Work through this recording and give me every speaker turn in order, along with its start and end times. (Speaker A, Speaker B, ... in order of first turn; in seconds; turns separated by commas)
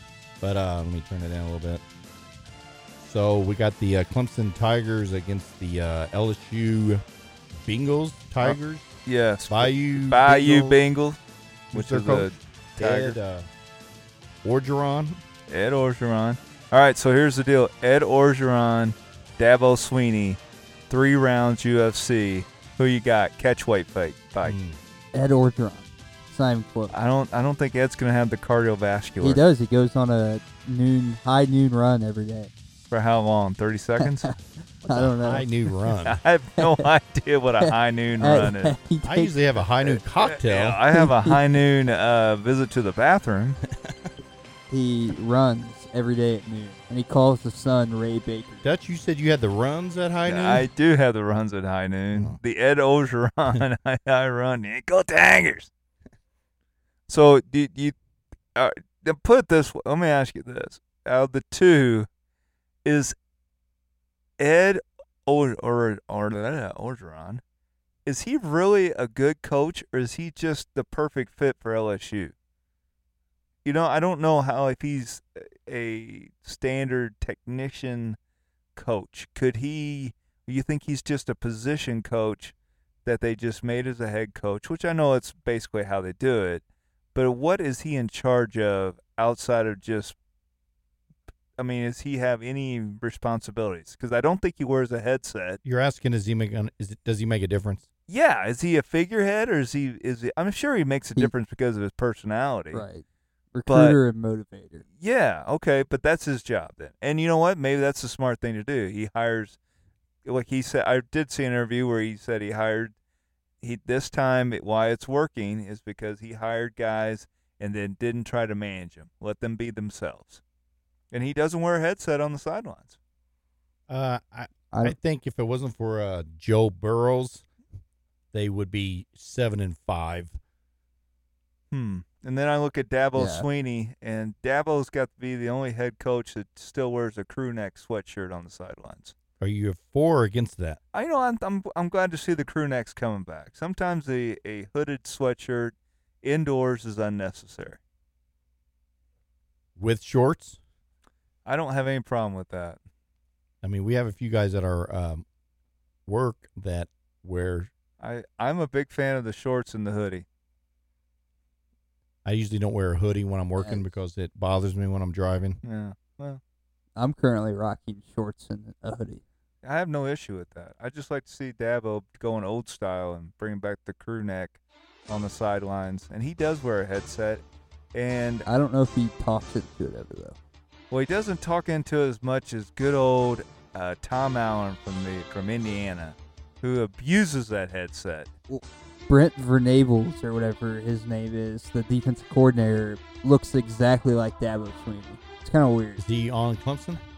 Speaker A: 0.4-1.8, Speaker A: 3.0-7.0, Speaker A: 7.5-8.9, Speaker B: 8.4-11.2, Speaker A: 9.5-10.8, Speaker A: 11.7-13.5, Speaker B: 11.7-13.2, Speaker A: 14.4-15.2, Speaker B: 15.5-24.6, Speaker A: 24.4-24.8, Speaker C: 25.1-26.9, Speaker B: 26.9-29.4, Speaker C: 29.2-32.5, Speaker B: 32.9-34.3, Speaker C: 34.0-34.3, Speaker A: 34.8-36.2, Speaker C: 34.9-35.5, Speaker B: 36.0-38.8, Speaker C: 36.6-36.8, Speaker C: 37.6-39.4, Speaker A: 39.0-40.8, Speaker B: 39.8-43.6, Speaker C: 40.9-41.4, Speaker A: 43.8-44.1, Speaker C: 44.7-48.6, Speaker A: 48.6-50.7, Speaker B: 50.2-55.7, Speaker A: 52.1-52.4, Speaker B: 57.1-57.9, Speaker B: 58.5-62.1, Speaker B: 62.8-63.1, Speaker B: 64.4-67.4, Speaker B: 68.0-72.3, Speaker B: 73.6-78.2, Speaker B: 78.8-86.6, Speaker B: 87.1-90.2, Speaker B: 91.6-95.6, Speaker A: 95.6-97.8, Speaker B: 98.1-102.8, Speaker C: 102.7-104.8, Speaker B: 103.7-104.0, Speaker B: 105.0-109.6, Speaker B: 110.2-112.9, Speaker B: 113.6-120.4, Speaker B: 121.1-123.0, Speaker A: 123.9-127.4, Speaker A: 128.3-130.4, Speaker B: 131.7-139.1, Speaker C: 133.1-133.5, Speaker A: 139.4-140.8, Speaker B: 140.9-147.8, Speaker A: 149.8-150.6, Speaker B: 151.4-152.8, Speaker A: 153.6-155.2, Speaker A: 156.1-157.7, Speaker B: 158.0-160.2, Speaker A: 162.2-165.6, Speaker C: 163.6-163.9, Speaker B: 165.6-166.4, Speaker C: 167.0-169.2, Speaker B: 169.6-177.4, Speaker B: 177.9-178.5, Speaker C: 178.4-180.4, Speaker B: 180.9-188.3, Speaker C: 188.5-196.0, Speaker A: 196.0-197.0